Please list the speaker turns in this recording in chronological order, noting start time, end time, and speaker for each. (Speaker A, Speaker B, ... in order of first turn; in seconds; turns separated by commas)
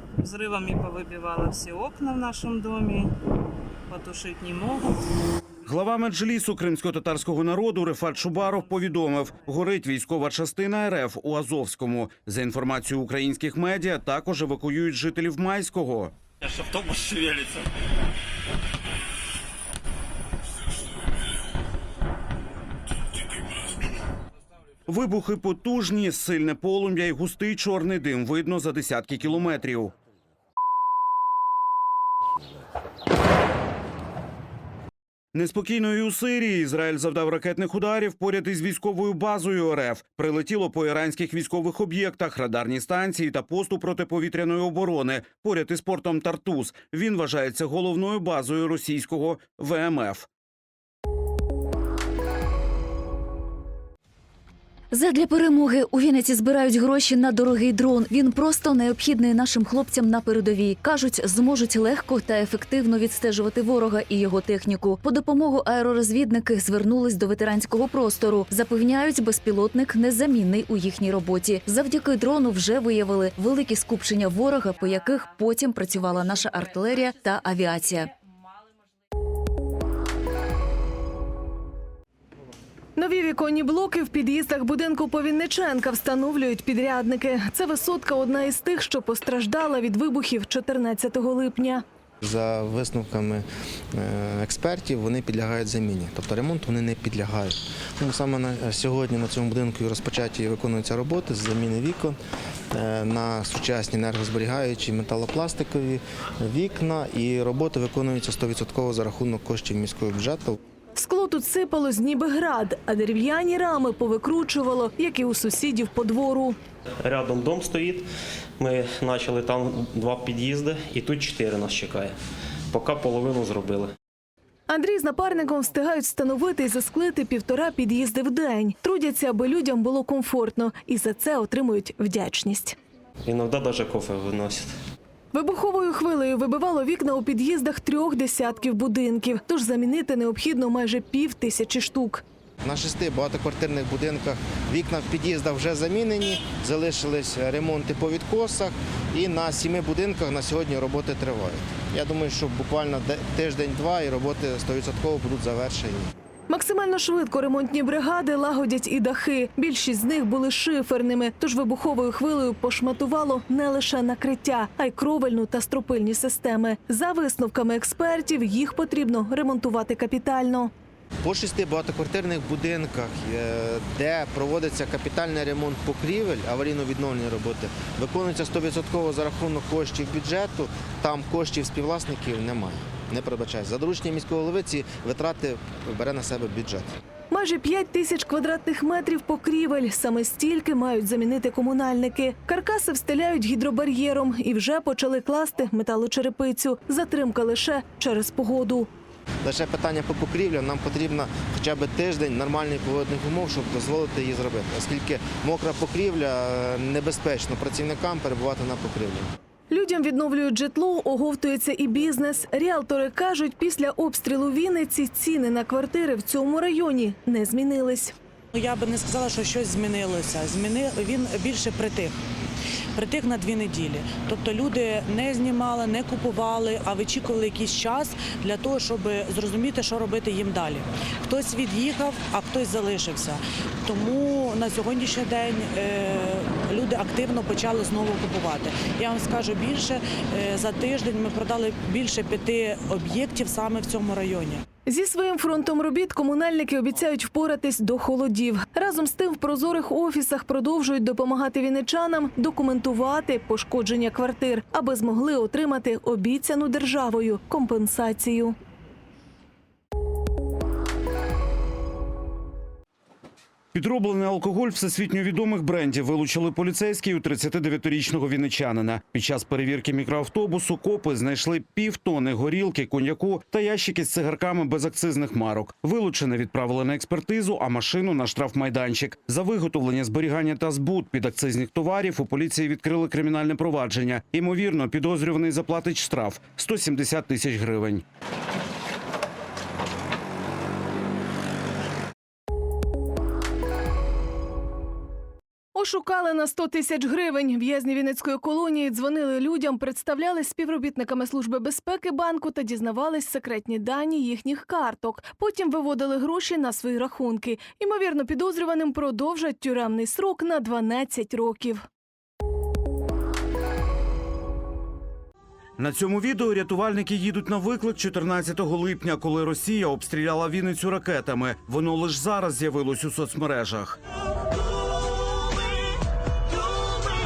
Speaker A: 0.2-3.1, Speaker A: 3.9-4.8, Speaker B: 5.7-16.1, Speaker B: 24.9-29.9, Speaker B: 35.3-50.3, Speaker C: 54.9-78.0, Speaker D: 83.0-91.8, Speaker E: 92.2-102.2, Speaker E: 102.7-110.6, Speaker D: 111.0-116.5, Speaker F: 117.0-118.1, Speaker F: 118.6-122.2, Speaker F: 122.7-123.9, Speaker D: 124.7-132.8, Speaker F: 133.2-134.7, Speaker D: 135.3-142.2, Speaker E: 142.6-156.1, Speaker D: 156.5-170.7, Speaker E: 171.2-186.9, Speaker D: 187.3-198.9, Speaker E: 199.4-209.3, Speaker D: 209.7-218.1, Speaker G: 218.6-222.1, Speaker A: 218.6-222.1, Speaker G: 223.0-244.6, Speaker A: 223.0-233.3, Speaker A: 233.9-239.8, Speaker A: 240.5-244.4, Speaker D: 244.8-258.6, Speaker B: 263.7-288.0, Speaker D: 295.7-311.8, Speaker B: 315.8-324.0